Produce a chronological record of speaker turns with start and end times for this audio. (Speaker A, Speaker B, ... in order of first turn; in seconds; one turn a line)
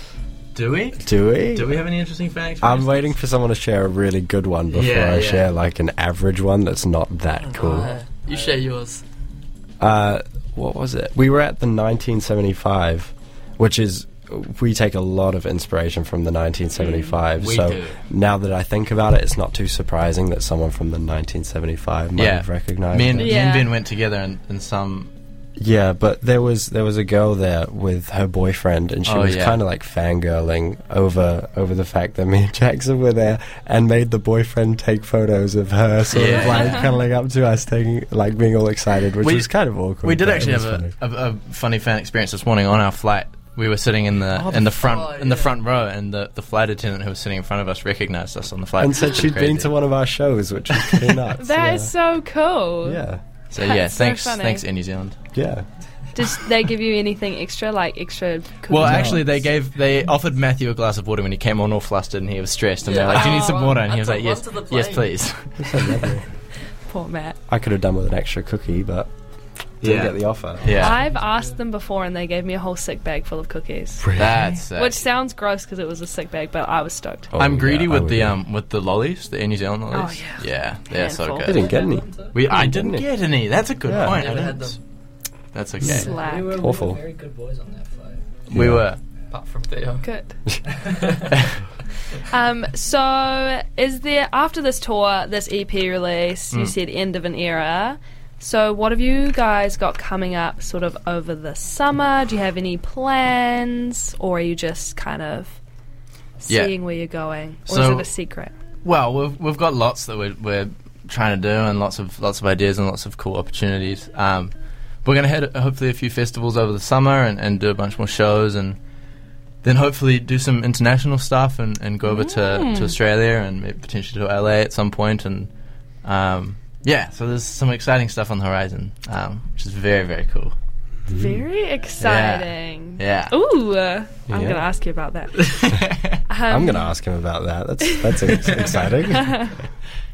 Speaker A: 0.6-3.2
Speaker B: 1.0-1.8
Speaker B: 2.6-7.9
Speaker A: 4.7-5.5
Speaker C: 7.4-9.0
Speaker B: 9.8-23.5
Speaker D: 16.8-17.2
Speaker A: 17.3-18.0
Speaker A: 22.2-25.1
Speaker D: 23.2-23.8
Speaker B: 25.6-41.0
Speaker A: 29.1-29.6
Speaker A: 36.1-36.9
Speaker A: 39.2-49.7
Speaker B: 44.3-44.8
Speaker C: 44.7-45.6
Speaker B: 48.8-51.9
Speaker A: 50.7-51.3
Speaker D: 51.4-53.0
Speaker B: 52.8-53.2
Speaker A: 53.5-55.2
Speaker D: 53.6-54.6
Speaker B: 55.3-55.7
Speaker D: 56.1-59.5
Speaker A: 58.7-66.2
Speaker B: 58.8-59.2
Speaker C: 62.8-65.1
Speaker B: 65.6-66.3
Speaker D: 66.9-67.4
Speaker B: 67.5-69.1
Speaker B: 69.8-71.0
Speaker A: 69.8-71.0
Speaker C: 70.8-71.4
Speaker D: 70.8-74.1
Speaker B: 74.0-74.5
Speaker A: 74.2-75.0
Speaker D: 74.7-77.3
Speaker B: 77.3-78.4
Speaker A: 77.4-81.8
Speaker D: 79.9-81.7
Speaker B: 81.4-83.1
Speaker E: 81.6-82.4
Speaker A: 82.3-84.8
Speaker B: 83.8-84.2
Speaker C: 84.0-84.8
Speaker A: 85.5-86.1
Speaker D: 85.8-86.6
Speaker E: 85.9-88.2
Speaker B: 86.6-87.0
Speaker A: 88.5-89.0
Speaker B: 88.5-88.8
Speaker C: 89.3-90.0
Speaker D: 90.0-90.3
Speaker D: 92.1-105.6
Speaker D: 106.4-108.5
Speaker A: 106.5-106.8
Speaker A: 107.7-108.1
Speaker A: 108.8-114.5
Speaker A: 115.0-118.8
Speaker A: 119.6-125.5
Speaker D: 122.0-123.0
Speaker A: 126.0-130.6
Speaker B: 131.1-131.4
Speaker D: 131.1-136.9
Speaker A: 132.0-133.3
Speaker B: 134.3-134.7
Speaker A: 135.4-136.1
Speaker B: 136.5-139.5
Speaker D: 137.9-138.5
Speaker D: 139.1-139.6